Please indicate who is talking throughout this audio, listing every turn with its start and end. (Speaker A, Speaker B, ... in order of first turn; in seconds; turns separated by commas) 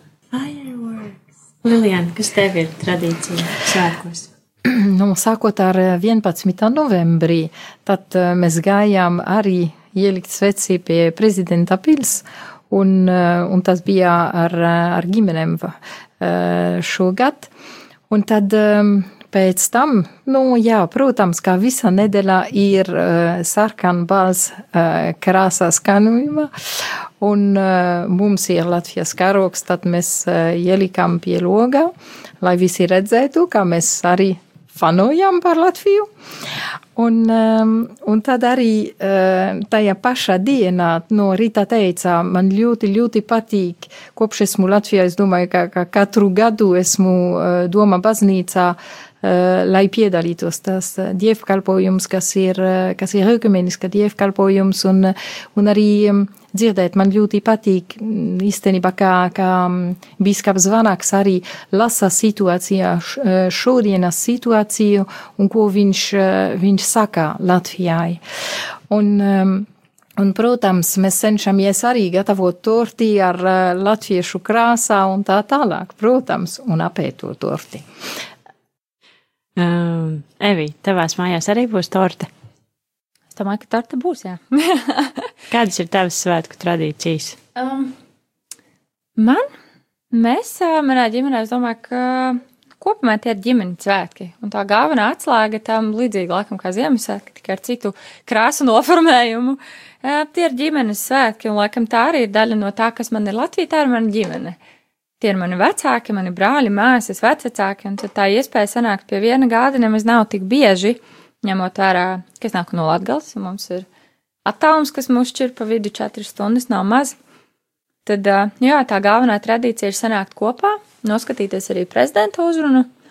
Speaker A: 0.3-4.3, Speaker B: 4.7-17.5, Speaker B: 18.1-36.1, Speaker B: 37.0-68.2, Speaker B: 68.9-69.7, Speaker B: 70.2-77.8, Speaker A: 79.6-82.3, Speaker C: 83.3-85.2, Speaker A: 85.5-87.4, Speaker C: 87.6-87.9, Speaker C: 89.2-89.5, Speaker C: 90.1-104.6, Speaker C: 105.2-113.9, Speaker C: 114.5-117.2, Speaker C: 118.0-122.9